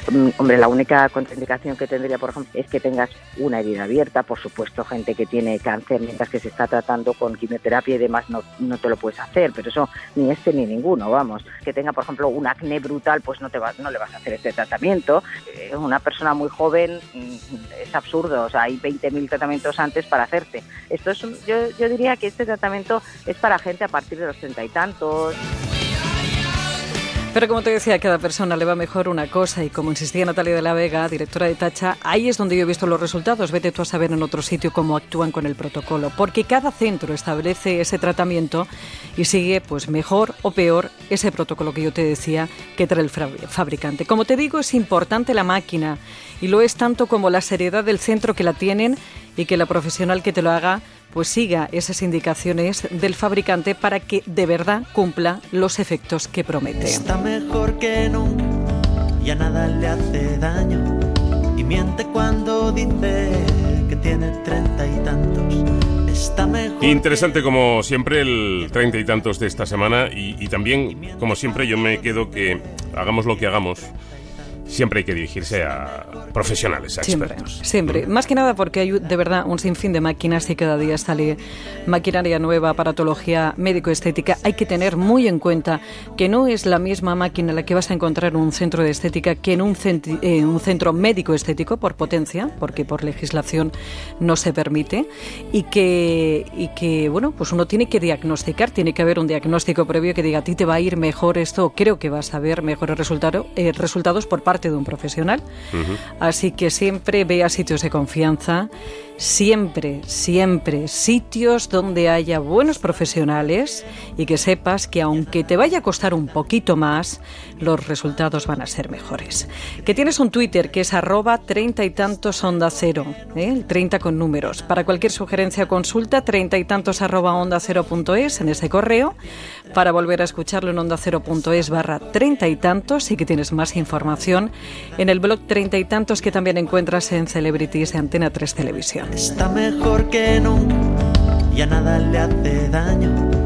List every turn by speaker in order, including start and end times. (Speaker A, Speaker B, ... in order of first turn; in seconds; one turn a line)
Speaker A: 0.1-25.4
Speaker B: 27.3-57.1
Speaker C: 56.8-58.6
Speaker C: 59.2-61.0
Speaker C: 61.5-67.5
Speaker D: 66.8-73.9
Speaker C: 71.0-72.3
Speaker D: 74.7-78.0
Speaker B: 77.0-105.4
Speaker D: 105.7-106.0
Speaker B: 106.2-129.2
Speaker B: 129.7-139.1
Speaker C: 139.2-140.9
Speaker C: 141.5-143.3